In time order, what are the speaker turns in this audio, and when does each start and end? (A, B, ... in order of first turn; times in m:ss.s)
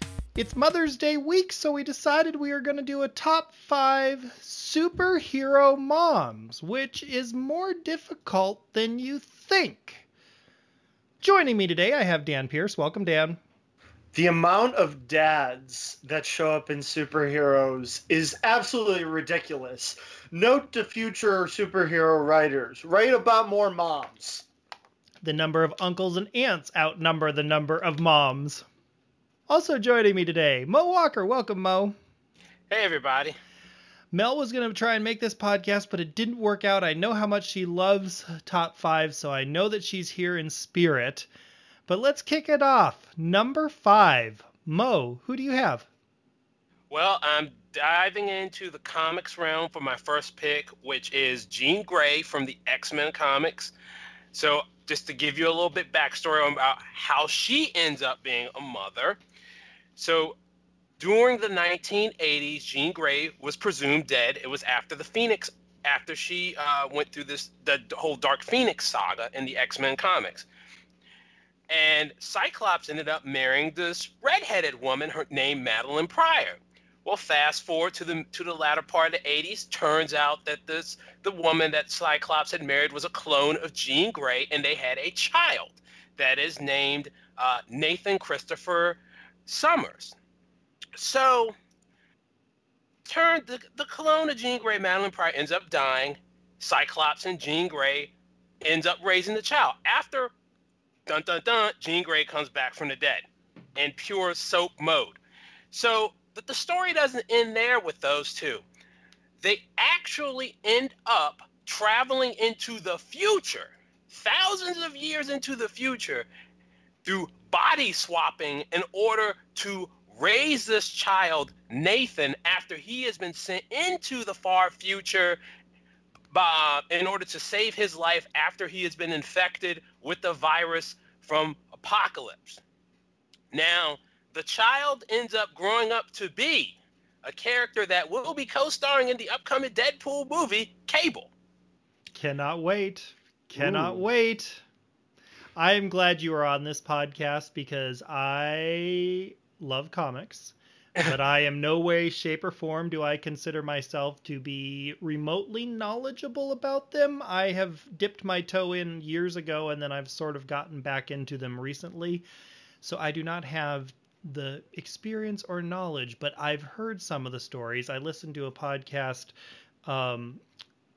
0:00.4-0:10.1 A
0:11.2-0:13.4 A
0:14.1-0:24.5 B
0:25.2-0:28.7 A
0:29.5-0:32.0 A
0:32.7-0:33.4 C
0:34.1-0:41.3 A
0:41.9-0:45.9 A
0:46.9-0:53.7 C
0:54.3-0:59.2 C
1:00.0-1:00.4 C
1:01.0-1:10.5 C
1:11.7-1:30.2 C
1:31.0-1:31.6 C
1:33.1-1:40.3 C
1:41.1-1:43.2 C
1:43.8-1:45.2 C
1:45.7-1:48.6 C
1:49.4-1:56.3 C
1:57.0-2:05.4 C
2:06.3-2:12.6 C
2:13.5-2:21.3 C
2:22.2-2:24.6 A
2:23.6-2:24.0 B
2:25.6-2:42.3 A
2:42.8-2:49.3 A
2:49.9-2:50.4 A